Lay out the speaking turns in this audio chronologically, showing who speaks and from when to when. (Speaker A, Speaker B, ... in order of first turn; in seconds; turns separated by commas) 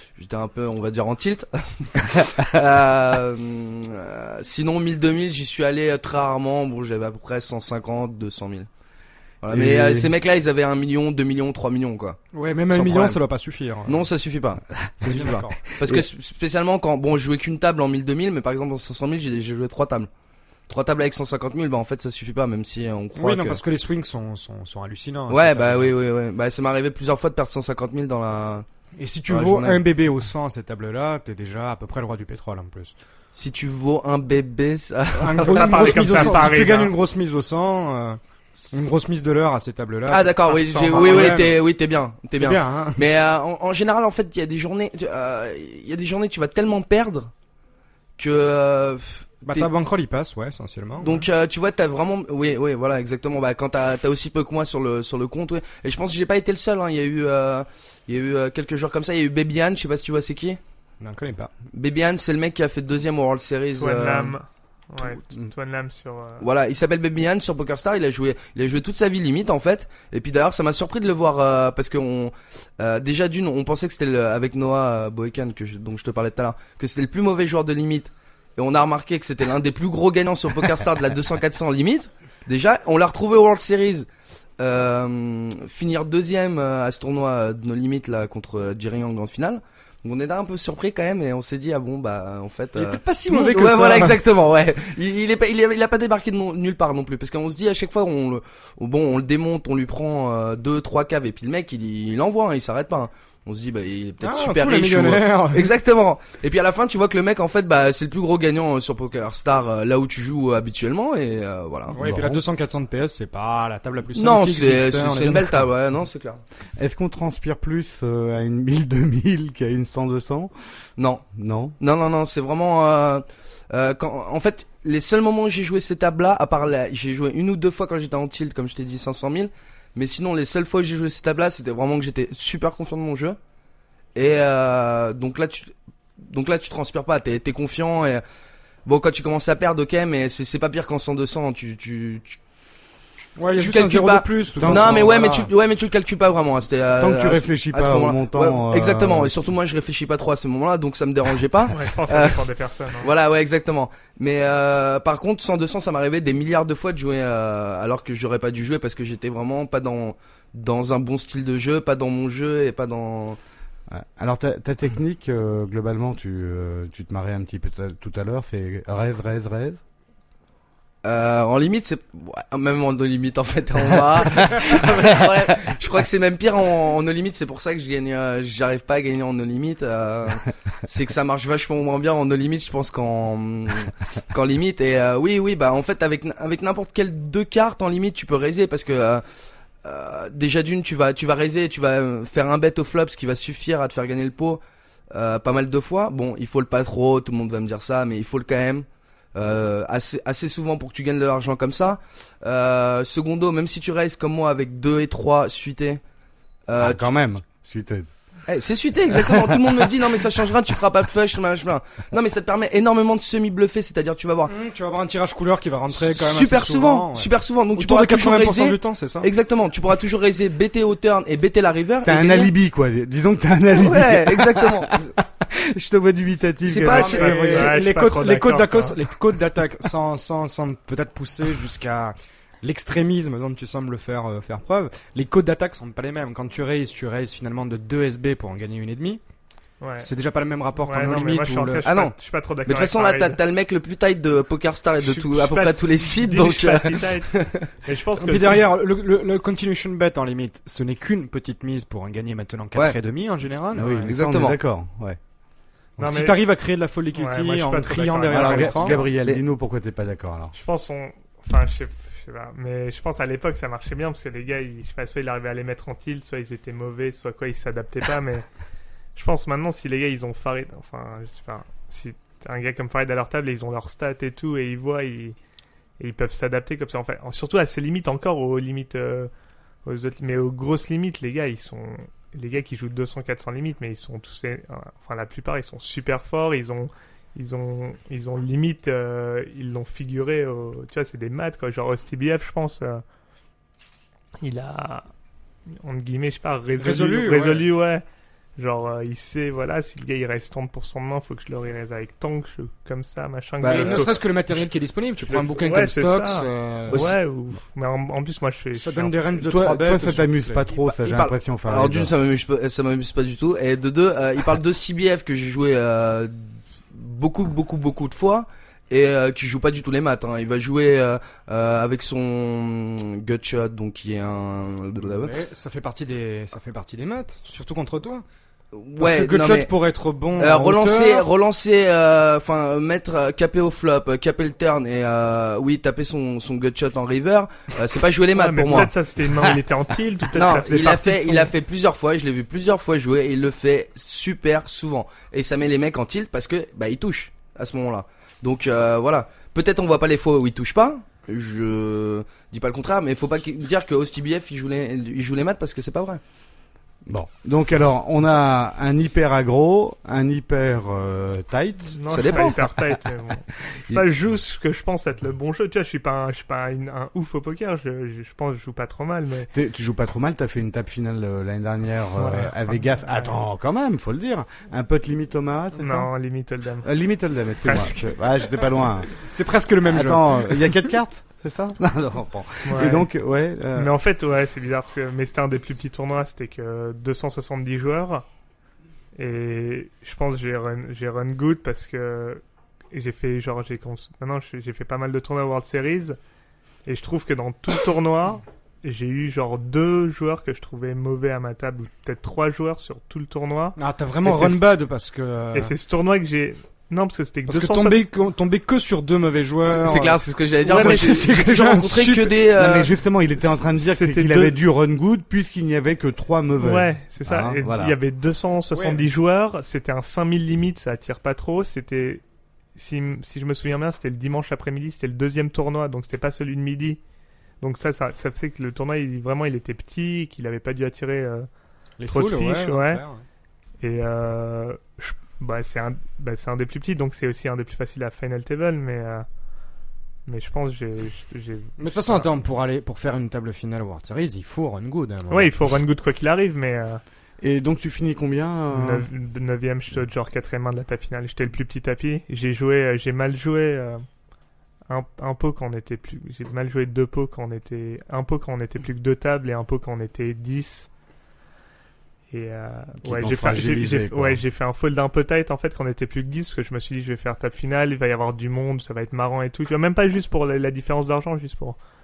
Speaker A: 0.2-8.7, Speaker A: 9.4-12.2, Speaker B: 9.5-10.1, Speaker C: 12.3-14.1, Speaker A: 12.7-13.2, Speaker A: 13.9-20.1, Speaker B: 14.8-15.2, Speaker C: 15.1-15.6, Speaker A: 20.7-23.6, Speaker C: 23.2-26.0, Speaker A: 25.3-28.7, Speaker C: 29.0-33.0, Speaker A: 29.3-29.8, Speaker A: 33.3-36.6, Speaker C: 35.2-38.2, Speaker D: 35.5-36.9, Speaker C: 38.7-41.6, Speaker A: 40.1-47.3, Speaker C: 42.4-43.0, Speaker A: 48.2-49.7, Speaker C: 49.5-51.3, Speaker A: 51.0-60.6, Speaker C: 61.0-61.5, Speaker A: 61.7-64.3, Speaker D: 63.8-66.5, Speaker A: 66.4-84.1, Speaker A: 84.6-112.0, Speaker C: 92.8-94.2, Speaker C: 104.2-105.7, Speaker C: 111.9-115.7, Speaker B: 112.0-112.4, Speaker A: 114.2-116.4, Speaker B: 116.8-120.5, Speaker A: 121.0-121.3, Speaker B: 121.3-121.8, Speaker A: 121.8-133.4, Speaker A: 134.2-135.7, Speaker A: 136.2-138.2, Speaker A: 138.9-142.4, Speaker C: 143.4-145.5, Speaker A: 143.6-152.4, Speaker B: 144.6-145.0, Speaker B: 147.0-149.5, Speaker D: 151.7-153.1, Speaker A: 153.0-163.4, Speaker B: 163.9-169.8, Speaker A: 171.0-189.2, Speaker A: 189.8-194.6, Speaker A: 195.1-206.0, Speaker A: 206.7-207.1, Speaker B: 206.8-208.1, Speaker A: 208.5-214.5, Speaker B: 209.1-209.6, Speaker C: 214.5-219.3, Speaker A: 215.9-222.5, Speaker B: 222.0-227.8, Speaker A: 223.7-225.0, Speaker A: 226.7-227.4, Speaker C: 226.9-239.2, Speaker D: 226.9-229.0, Speaker D: 239.8-240.1, Speaker C: 240.0-241.8, Speaker D: 240.8-243.4, Speaker A: 241.8-242.1, Speaker A: 242.7-247.7, Speaker D: 245.0-248.6, Speaker C: 248.2-253.9, Speaker B: 253.7-255.2, Speaker D: 253.8-254.1, Speaker A: 254.1-254.6, Speaker C: 256.0-259.0, Speaker D: 256.0-256.4, Speaker D: 257.1-259.1, Speaker B: 258.3-260.5, Speaker D: 260.5-268.5, Speaker D: 269.1-275.4, Speaker D: 276.0-279.3, Speaker D: 279.9-293.0, Speaker D: 294.4-295.1, Speaker D: 295.8-298.0, Speaker C: 296.8-297.7, Speaker D: 298.6-304.6, Speaker A: 303.6-304.1, Speaker C: 303.7-307.1, Speaker D: 305.2-309.2, Speaker C: 308.8-310.7, Speaker B: 309.4-312.1, Speaker A: 310.8-325.3, Speaker C: 325.1-328.2, Speaker A: 328.7-329.7, Speaker C: 329.0-331.3, Speaker A: 330.4-338.9, Speaker D: 338.4-341.5, Speaker A: 340.4-356.2, Speaker B: 357.1-362.0, Speaker D: 361.9-369.5, Speaker A: 362.1-362.6, Speaker B: 369.5-376.1, Speaker D: 372.2-373.4, Speaker D: 375.8-376.9, Speaker B: 376.8-379.2, Speaker D: 377.6-378.1, Speaker C: 379.2-380.8, Speaker B: 379.8-383.9, Speaker D: 382.6-383.1, Speaker D: 383.8-388.2, Speaker D: 389.2-396.2, Speaker D: 396.9-404.7, Speaker C: 403.8-405.7, Speaker D: 405.5-408.1, Speaker C: 407.5-412.4, Speaker A: 409.6-412.9, Speaker D: 410.7-411.1, Speaker B: 412.6-418.0, Speaker D: 413.8-414.6, Speaker D: 416.6-422.2, Speaker C: 418.7-419.0, Speaker D: 422.8-427.0, Speaker D: 427.6-431.5, Speaker C: 432.0-433.2, Speaker D: 432.1-433.0, Speaker D: 433.8-439.3, Speaker D: 440.3-442.3, Speaker C: 441.8-445.6, Speaker D: 445.3-447.0, Speaker B: 447.4-449.1, Speaker D: 448.7-454.0, Speaker D: 454.9-460.9, Speaker D: 462.3-471.8, Speaker B: 463.0-464.4